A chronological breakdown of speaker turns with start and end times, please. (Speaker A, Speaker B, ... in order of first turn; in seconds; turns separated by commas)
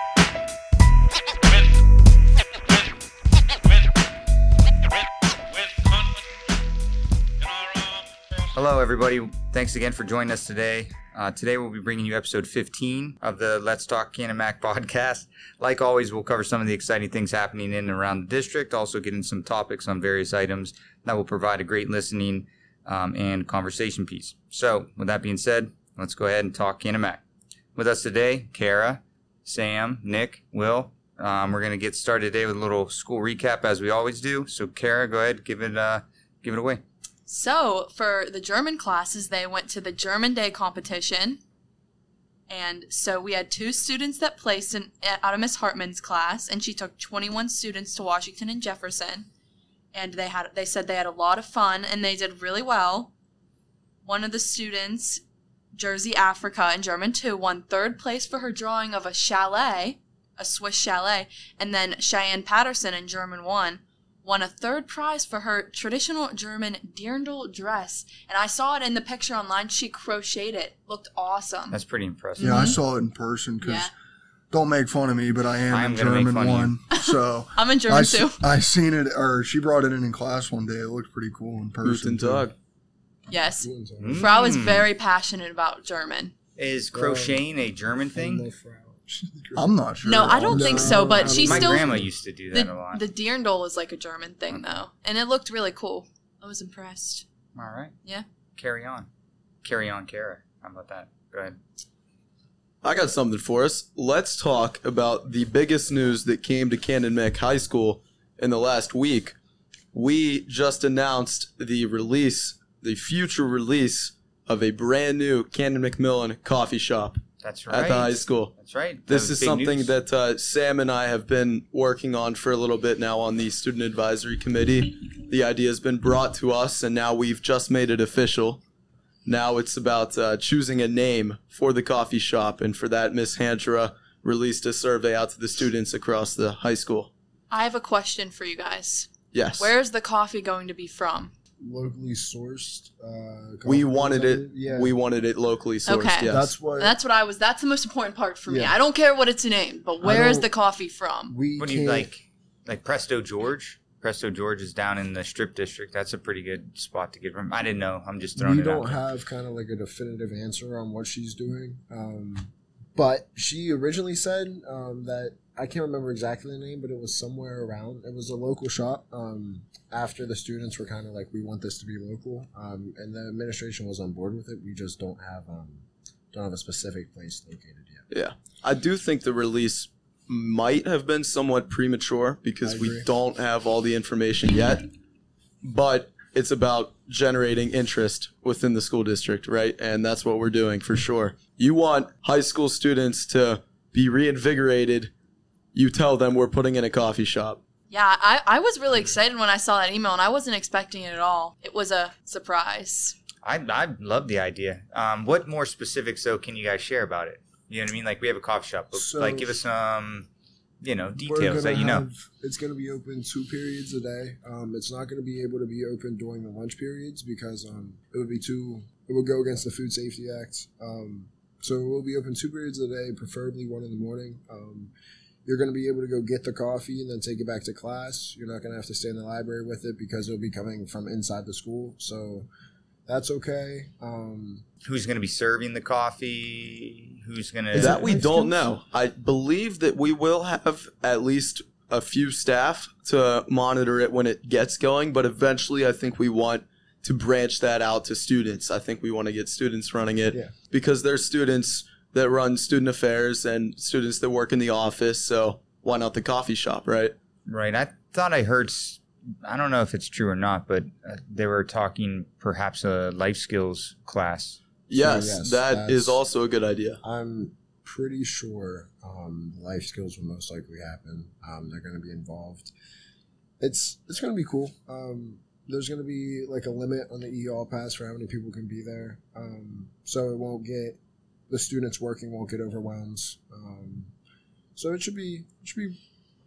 Speaker A: 8.5-27.2, Speaker A: 27.8-36.8, Speaker B: 37.3-41.4, Speaker B: 42.5-49.3, Speaker B: 49.9-53.1, Speaker B: 54.0-55.2, Speaker B: 55.7-71.8, Speaker A: 71.7-72.8, Speaker B: 72.4-72.8, Speaker C: 72.4-73.9, Speaker B: 73.6-73.9, Speaker C: 74.5-82.5, Speaker A: 75.7-76.8, Speaker B: 76.9-78.5, Speaker D: 81.8-82.5, Speaker B: 83.3-86.3, Speaker E: 83.6-84.3, Speaker A: 84.0-84.9, Speaker A: 86.6-88.5, Speaker E: 86.9-87.4, Speaker E: 88.1-92.1, Speaker C: 89.5-91.3, Speaker B: 90.0-92.0, Speaker A: 91.2-93.0, Speaker B: 92.5-97.3, Speaker A: 97.5-98.0, Speaker A: 98.6-99.1, Speaker A: 99.6-101.6, Speaker D: 102.8-109.4, Speaker D: 109.9-118.5, Speaker A: 117.4-119.9, Speaker D: 119.1-128.6, Speaker D: 129.2-137.1, Speaker B: 137.5-141.3, Speaker D: 139.3-139.7, Speaker E: 141.6-145.0, Speaker D: 143.7-146.5, Speaker B: 145.9-151.3, Speaker E: 146.2-147.0, Speaker E: 148.5-148.8, Speaker E: 150.0-150.5, Speaker E: 151.3-152.1, Speaker A: 151.6-159.0, Speaker E: 158.4-178.1, Speaker D: 178.1-184.9, Speaker E: 182.6-183.1, Speaker D: 185.6-195.1, Speaker D: 195.7-197.6, Speaker B: 197.9-203.2, Speaker A: 203.4-210.3, Speaker E: 208.9-209.6, Speaker A: 210.8-212.1, Speaker E: 211.2-224.9, Speaker E: 225.4-232.5, Speaker E: 233.1-234.6, Speaker A: 234.8-238.1, Speaker E: 237.7-238.7, Speaker D: 237.7-257.1, Speaker A: 257.5-264.6, Speaker D: 264.9-267.0, Speaker E: 264.9-266.2, Speaker E: 267.0-272.7, Speaker E: 273.6-281.0, Speaker E: 281.5-284.1, Speaker E: 284.8-286.0